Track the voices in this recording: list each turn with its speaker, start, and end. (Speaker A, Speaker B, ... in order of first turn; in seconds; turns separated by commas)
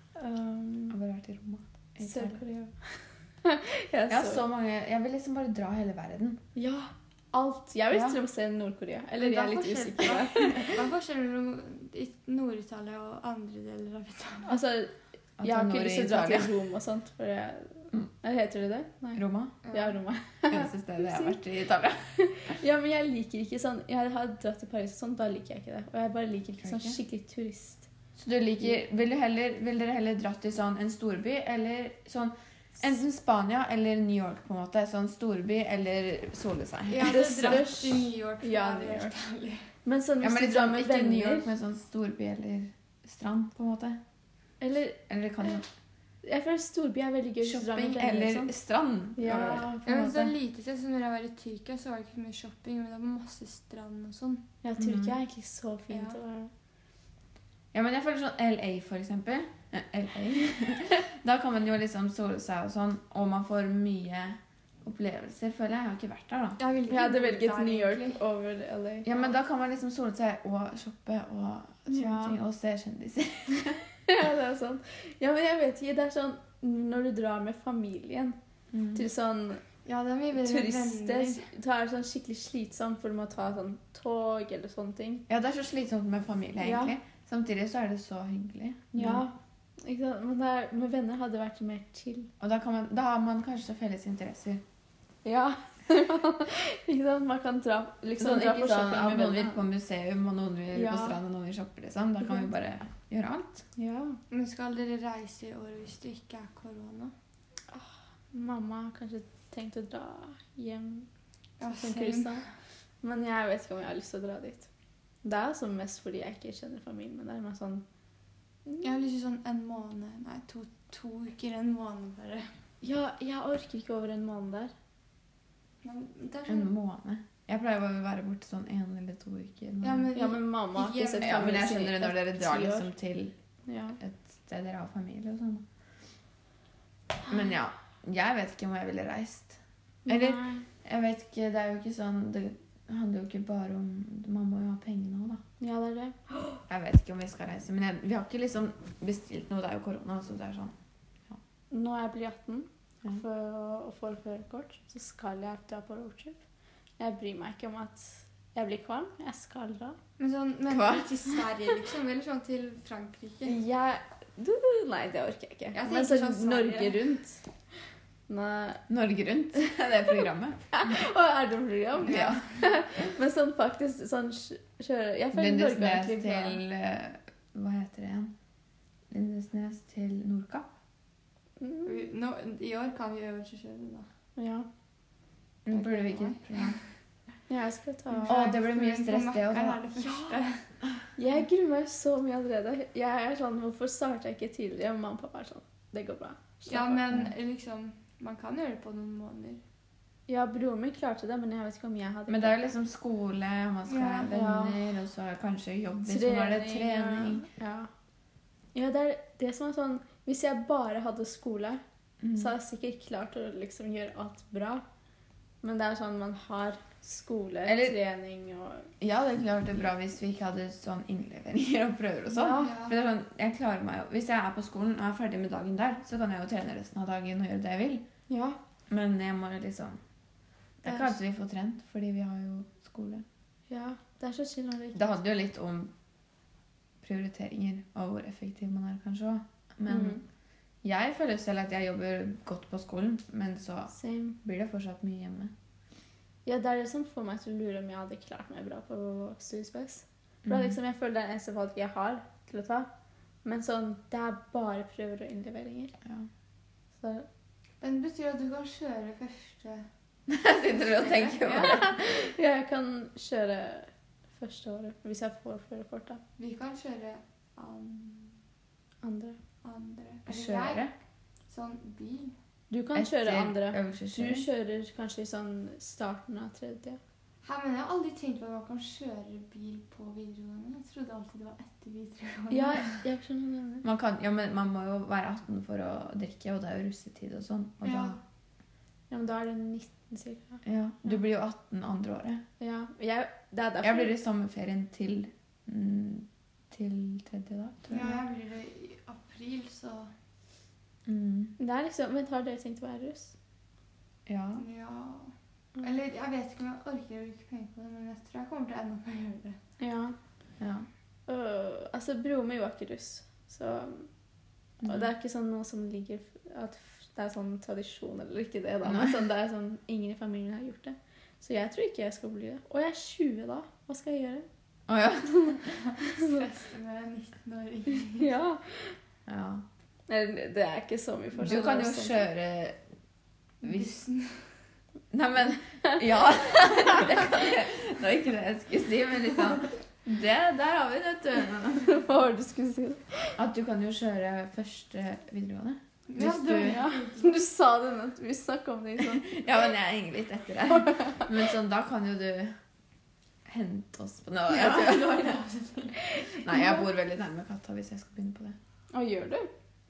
Speaker A: 0.2-1.0, Speaker B: 0.9-2.4, Speaker A: 2.0-4.4, Speaker B: 4.1-6.4, Speaker A: 6.6-10.8, Speaker B: 7.9-8.2, Speaker C: 9.2-14.6, Speaker A: 14.5-21.4, Speaker B: 15.4-16.5, Speaker B: 19.1-19.6, Speaker C: 19.6-20.0, Speaker B: 20.5-22.2, Speaker A: 22.2-27.9, Speaker B: 26.6-27.0, Speaker B: 28.2-37.7, Speaker C: 36.9-39.7, Speaker A: 37.0-39.1, Speaker A: 39.9-41.5, Speaker B: 40.2-44.0, Speaker A: 44.6-45.6, Speaker B: 45.1-45.6, Speaker A: 46.2-48.5, Speaker B: 47.4-50.3, Speaker A: 49.2-49.9, Speaker C: 49.9-54.5, Speaker A: 54.6-56.5, Speaker B: 54.8-55.1, Speaker C: 55.9-56.2, Speaker B: 57.7-66.6, Speaker C: 66.6-68.2, Speaker A: 66.9-69.1, Speaker B: 69.0-73.8, Speaker A: 71.9-72.4, Speaker A: 74.1-78.4, Speaker B: 78.7-79.1, Speaker A: 79.0-79.6, Speaker C: 79.8-81.5, Speaker A: 80.4-85.2, Speaker B: 85.3-89.3, Speaker A: 86.6-87.0, Speaker A: 88.9-92.3, Speaker B: 92.4-94.6, Speaker A: 95.2-99.6, Speaker B: 98.2-103.7, Speaker A: 100.7-101.2, Speaker A: 102.2-102.5, Speaker A: 103.8-104.2, Speaker C: 104.3-107.1, Speaker A: 107.7-111.1, Speaker C: 111.6-112.4, Speaker A: 111.7-112.4, Speaker A: 113.0-114.7, Speaker A: 115.2-117.8, Speaker C: 118.8-122.5, Speaker A: 122.8-124.7, Speaker C: 125.8-126.7, Speaker B: 126.5-130.1, Speaker C: 129.8-131.7, Speaker A: 130.1-132.9, Speaker B: 131.2-133.3, Speaker A: 133.7-134.0, Speaker B: 134.0-135.7, Speaker B: 137.3-145.4, Speaker A: 140.1-140.7, Speaker A: 145.6-146.6, Speaker B: 146.7-150.7, Speaker A: 151.7-156.4, Speaker A: 157.0-160.0, Speaker C: 160.2-163.6, Speaker B: 160.7-161.1, Speaker A: 163.4-167.4, Speaker C: 165.7-167.1, Speaker A: 168.3-168.8, Speaker B: 168.9-170.7, Speaker A: 170.7-176.6, Speaker B: 172.0-172.4, Speaker C: 172.1-172.4, Speaker B: 175.3-178.3, Speaker B: 179.1-180.7, Speaker A: 181.6-182.0, Speaker C: 181.8-184.1, Speaker A: 184.4-184.7, Speaker B: 185.7-186.8, Speaker C: 185.7-186.7, Speaker A: 187.5-188.4, Speaker C: 188.2-190.6, Speaker B: 188.3-190.3, Speaker A: 191.2-197.2, Speaker C: 196.7-199.6, Speaker A: 200.3-202.8, Speaker B: 202.3-207.5, Speaker C: 203.9-204.3, Speaker A: 204.3-204.9, Speaker A: 206.1-207.9, Speaker A: 208.7-211.8, Speaker B: 212.2-212.5, Speaker A: 212.3-214.8, Speaker A: 215.6-218.9, Speaker B: 217.7-218.0, Speaker B: 219.0-228.0, Speaker A: 222.3-222.8, Speaker C: 222.5-223.0, Speaker A: 228.3-228.6, Speaker B: 228.9-230.0, Speaker B: 230.8-233.2, Speaker A: 230.8-231.2, Speaker A: 233.7-235.2, Speaker B: 234.9-235.9, Speaker B: 237.0-240.2, Speaker A: 239.9-240.2, Speaker B: 240.8-245.5, Speaker A: 243.9-244.4, Speaker A: 246.4-252.9, Speaker B: 250.5-250.8, Speaker A: 253.4-255.9, Speaker A: 257.0-257.3, Speaker C: 257.8-259.9, Speaker B: 260.3-262.0, Speaker C: 260.7-261.9, Speaker A: 261.4-266.2, Speaker C: 266.4-268.4, Speaker A: 269.0-269.4, Speaker C: 269.6-270.9, Speaker B: 270.3-270.9, Speaker C: 271.5-272.3, Speaker A: 272.7-277.0, Speaker B: 272.9-274.5, Speaker C: 277.4-283.0, Speaker A: 282.5-283.9, Speaker B: 283.8-288.2, Speaker C: 287.8-288.2, Speaker A: 289.1-291.2, Speaker B: 290.6-292.4, Speaker A: 292.6-294.2, Speaker B: 293.8-298.2, Speaker C: 297.9-300.1, Speaker B: 301.1-301.6, Speaker A: 301.6-303.4, Speaker B: 304.3-304.6, Speaker C: 304.6-309.6, Speaker A: 309.8-310.2, Speaker B: 310.6-310.9, Speaker A: 311.3-314.1, Speaker A: 314.8-324.5, Speaker B: 314.8-315.1, Speaker B: 318.8-319.2, Speaker B: 324.9-325.6, Speaker A: 325.2-325.6, Speaker C: 325.6-328.4, Speaker A: 326.1-326.4, Speaker A: 328.1-329.0, Speaker B: 329.3-329.6, Speaker A: 330.1-332.3, Speaker B: 331.4-332.8, Speaker C: 333.6-334.5, Speaker B: 333.6-334.0, Speaker B: 335.1-342.1, Speaker A: 336.1-337.3, Speaker A: 341.8-343.4, Speaker B: 343.4-346.8, Speaker C: 346.1-347.5, Speaker A: 346.6-349.6, Speaker B: 349.2-352.5, Speaker A: 350.8-351.3, Speaker B: 353.5-355.3, Speaker C: 354.5-356.0, Speaker A: 356.3-356.9, Speaker B: 356.4-358.6, Speaker A: 358.9-359.5